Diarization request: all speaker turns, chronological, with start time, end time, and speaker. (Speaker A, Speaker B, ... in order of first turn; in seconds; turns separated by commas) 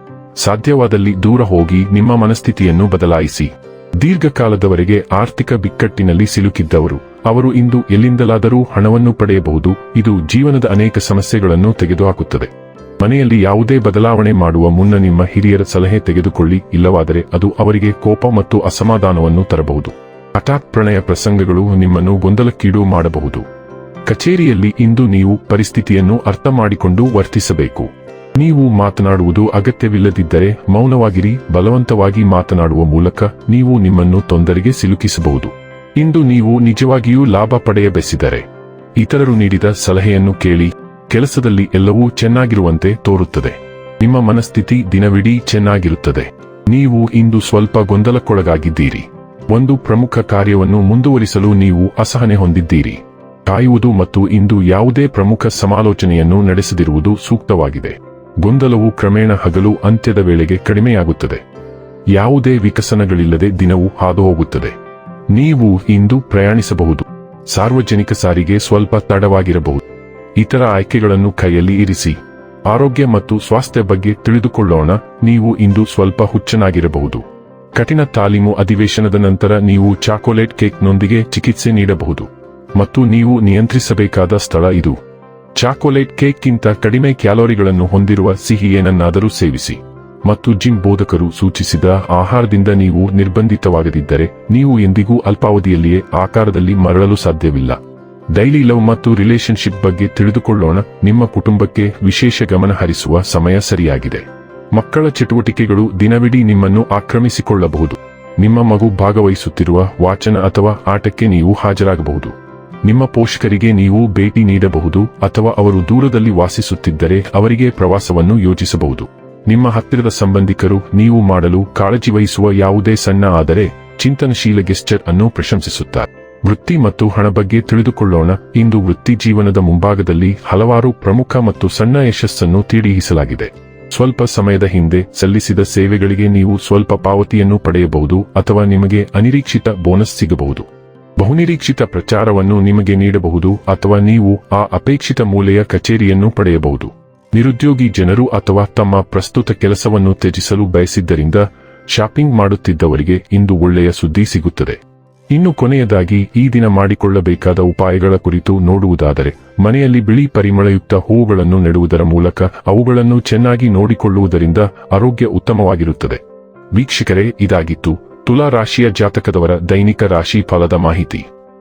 Speaker A: 0.4-23.4, Speaker A: 24.1-38.4, Speaker A: 39.0-61.4, Speaker A: 62.1-64.7, Speaker A: 65.3-69.8, Speaker A: 70.4-77.2, Speaker A: 77.7-85.0, Speaker A: 85.5-97.8, Speaker A: 98.3-112.3, Speaker A: 112.8-154.8, Speaker A: 155.3-166.2, Speaker A: 166.7-171.3